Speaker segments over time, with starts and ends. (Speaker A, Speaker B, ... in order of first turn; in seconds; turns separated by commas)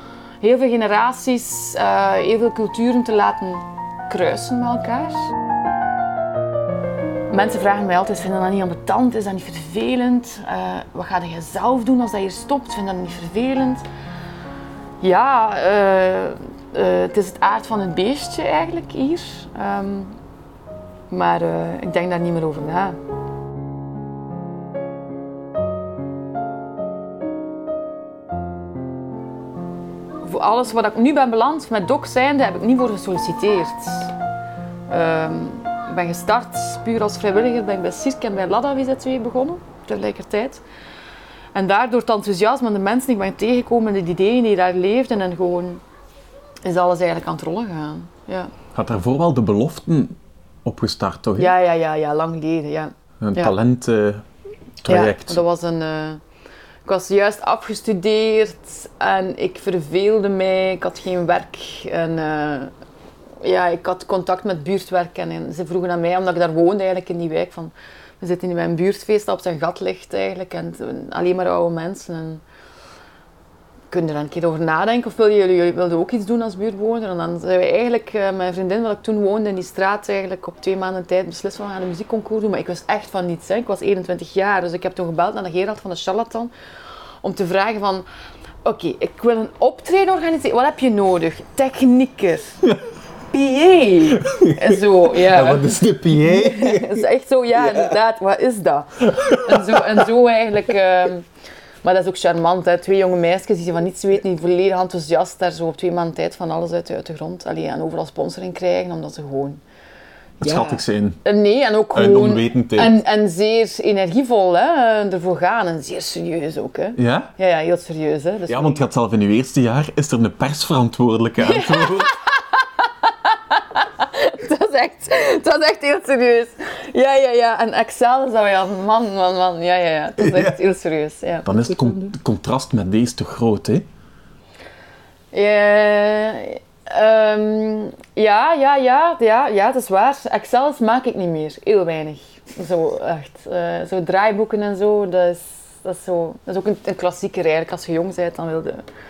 Speaker A: 0.4-5.2, Speaker A: 7.3-13.8, Speaker A: 15.0-20.2, Speaker A: 21.1-22.9, Speaker A: 30.2-34.1, Speaker A: 34.9-40.6, Speaker A: 41.5-45.8, Speaker A: 46.6-48.5, Speaker B: 48.7-51.5, Speaker A: 51.4-53.5, Speaker B: 53.2-54.2, Speaker B: 54.8-55.4, Speaker A: 54.9-56.2, Speaker A: 56.8-62.7, Speaker A: 63.4-72.4, Speaker A: 73.9-86.5, Speaker A: 87.2-88.0, Speaker A: 88.6-92.6, Speaker A: 93.3-101.3, Speaker B: 94.2-97.0, Speaker B: 99.1-99.8, Speaker A: 101.8-109.6, Speaker B: 110.4-111.2, Speaker A: 110.4-118.8, Speaker B: 111.9-112.9, Speaker B: 117.0-117.3, Speaker B: 118.5-122.1, Speaker A: 121.4-131.5, Speaker B: 130.2-130.5, Speaker B: 131.4-133.8, Speaker A: 135.3-148.8